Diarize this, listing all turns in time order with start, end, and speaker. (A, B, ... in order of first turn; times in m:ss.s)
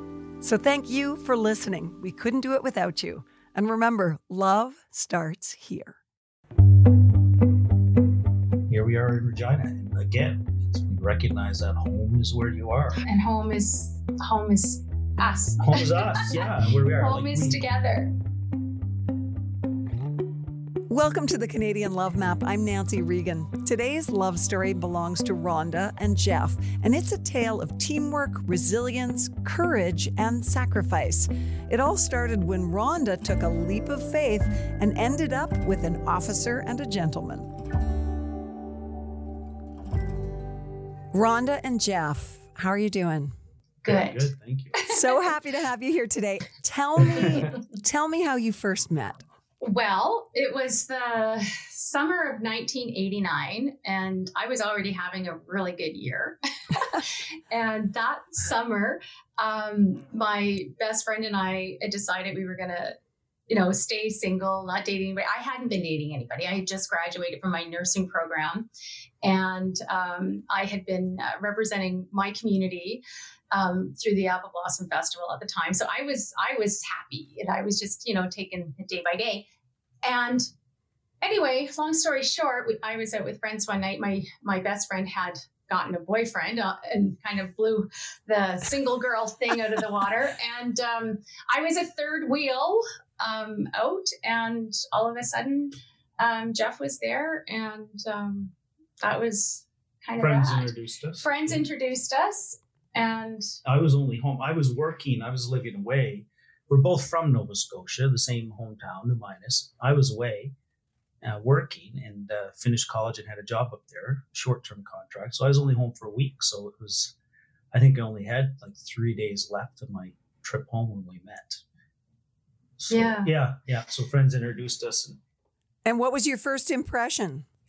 0:00.4-0:06.0 A
0:08.7-0:13.0 B
0:13.0-0:18.1 C
0:15.6-0:17.6 B
0:20.9-0:37.5 A
0:41.1-0:43.3 A
0:43.8-0:45.2 C
0:43.8-0:44.7 B
0:44.8-0:49.2 A
0:47.1-0:47.5 B
0:49.6-1:02.9 C
1:03.5-1:08.7 C
1:09.2-1:19.4 C
1:20.0-1:20.4 C
1:21.2-1:43.6 C
1:40.2-1:41.6 B
1:43.6-1:50.5 B
1:51.2-1:57.1 B
1:57.7-2:01.6 B
2:02.8-2:05.2 B
2:02.9-2:03.3 C
2:05.8-2:07.4 A